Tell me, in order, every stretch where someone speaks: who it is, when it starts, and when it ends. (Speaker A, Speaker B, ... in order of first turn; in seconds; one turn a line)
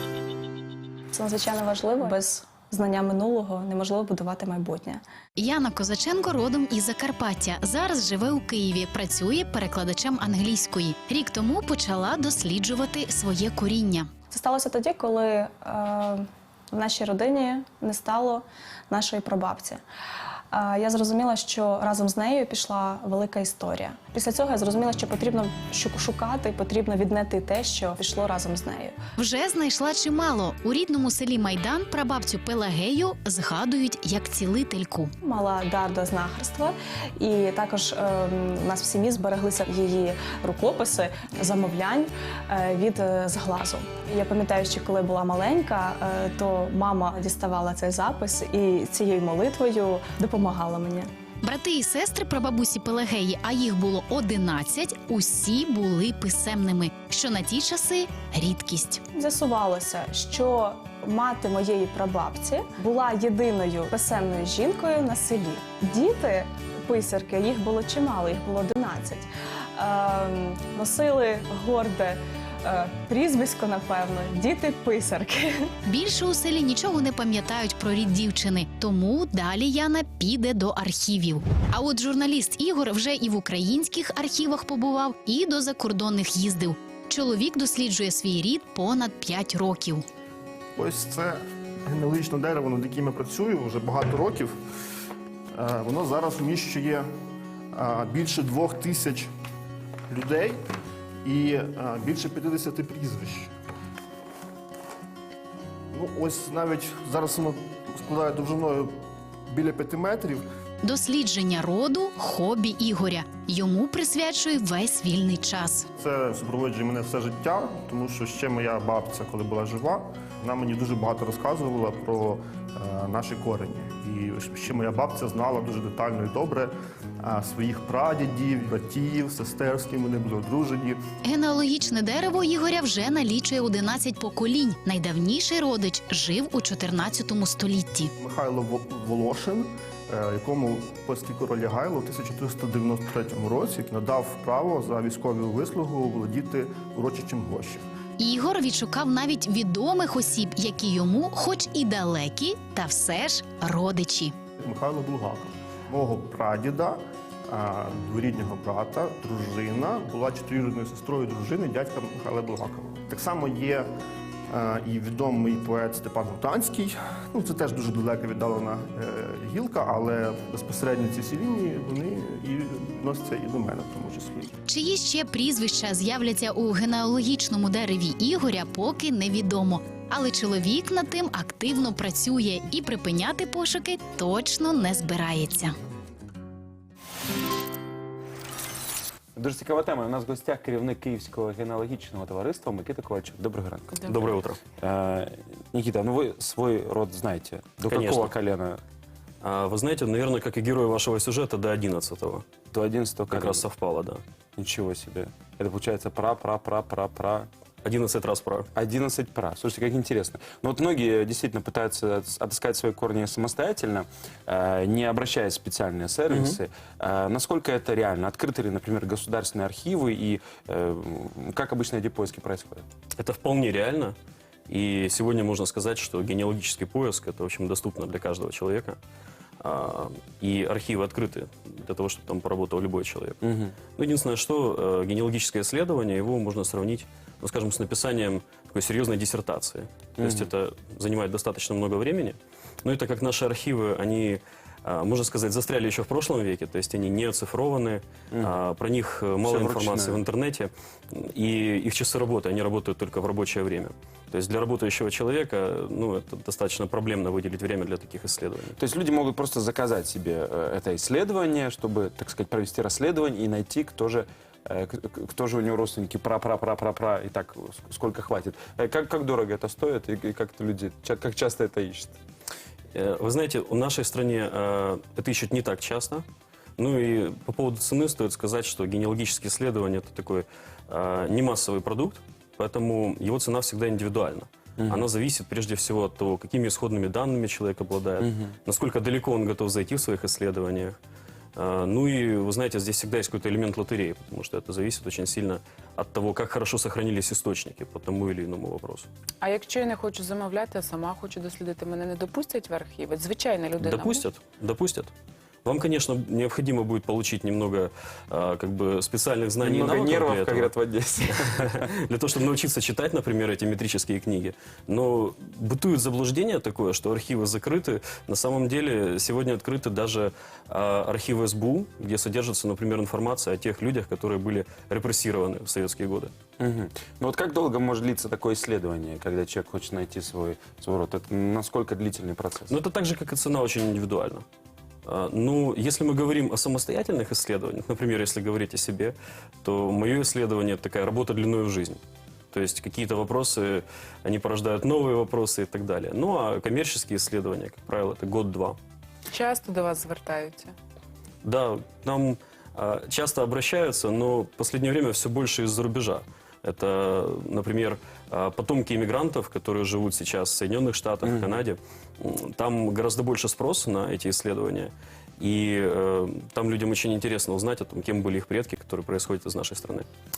Speaker A: 1.1-5.0
Speaker B: 5.4-14.1
Speaker A: 14.3-19.8
Speaker A: 20.5-29.0
Speaker B: 29.2-35.1
Speaker A: 35.2-51.1
Speaker B: 51.5-59.0
Speaker A: 59.2-75.7
Speaker B: 75.9-90.0
Speaker C: 90.8-94.5
Speaker C: 95.5-97.1
Speaker C: 97.7-99.3
Speaker C: 100.1-100.6
Speaker C: 101.2-103.5
Speaker C: 105.9-109.0
Speaker C: 109.5-110.5
Speaker B: 110.8-115.8
Speaker C: 116.0-131.0
Speaker B: 131.3-138.1
Speaker C: 138.2-147.9
Speaker B: 148.2-154.3
Speaker C: 154.6-163.9
Speaker C: 164.5-174.6
Speaker B: 174.7-185.7
Speaker D: 189.4-194.1
Speaker E: 194.1-194.6
Speaker D: 194.8-198.8
Speaker E: 197.8-198.3
Speaker E: 199.4-202.4
Speaker D: 202.7-203.7
Speaker E: 203.3-204.2
Speaker D: 204.6-207.5
Speaker E: 207.8-208.7
Speaker D: 208.8-222.8
Speaker E: 216.3-216.6
Speaker E: 223.2-224.2
Speaker E: 224.7-229.0
Speaker E: 229.6-233.4
Speaker D: 233.4-233.8
Speaker E: 234.0-258.8
Speaker D: 240.2-240.5
Speaker D: 249.4-250.2
Speaker D: 258.8-272.2
Speaker E: 272.9-276.2
Speaker E: 276.8-291.0
Speaker D: 284.8-285.1
Speaker E: 291.6-299.1
Speaker F: 299.4-304.3
Speaker E: 303.8-305.1
Speaker E: 305.6-310.7
Speaker D: 309.6-311.9
Speaker E: 311.2-326.3
Speaker D: 326.6-332.8
Speaker E: 332.7-334.4
Speaker E: 335.1-342.0
Speaker E: 342.5-348.8
Speaker F: 349.3-350.7
Speaker E: 351.4-370.1